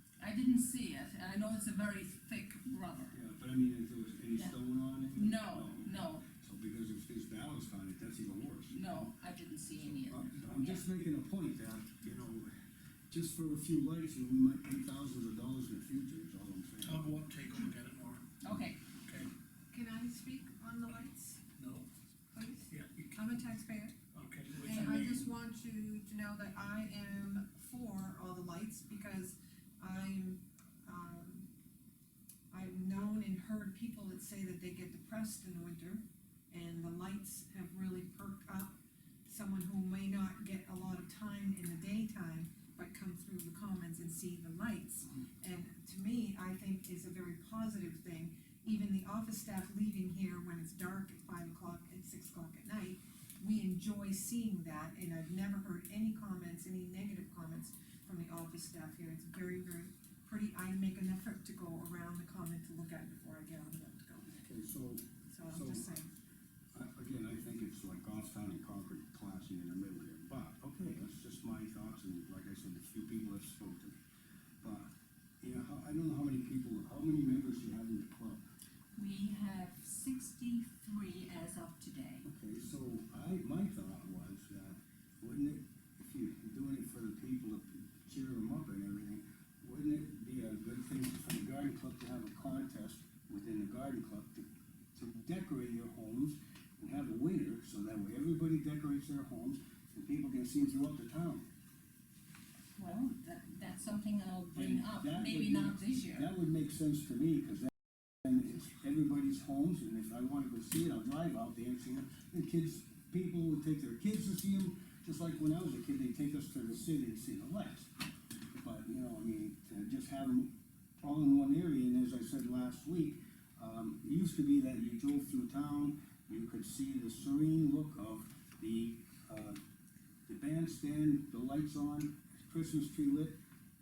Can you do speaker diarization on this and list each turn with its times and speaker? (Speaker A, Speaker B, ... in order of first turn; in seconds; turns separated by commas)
Speaker A: 0.2-3.2, Speaker B: 3.1-9.1, Speaker A: 5.1-6.3, Speaker A: 8.7-10.8, Speaker B: 9.8-12.6, Speaker B: 13.1-17.1, Speaker C: 16.8-18.3, Speaker A: 18.4-18.8, Speaker C: 19.1-19.3, Speaker D: 19.7-21.4, Speaker C: 21.6-21.9, Speaker D: 22.3-24.0, Speaker C: 22.7-23.2, Speaker C: 24.1-25.3, Speaker D: 24.6-31.5, Speaker D: 32.5-64.4, Speaker B: 64.4-65.9, Speaker D: 65.3-66.1, Speaker B: 66.7-74.0, Speaker B: 74.6-78.4, Speaker A: 79.0-82.3, Speaker B: 82.2-101.5, Speaker A: 102.8-106.3, Speaker B: 104.5-117.9, Speaker B: 118.6-129.6, Speaker B: 130.3-133.4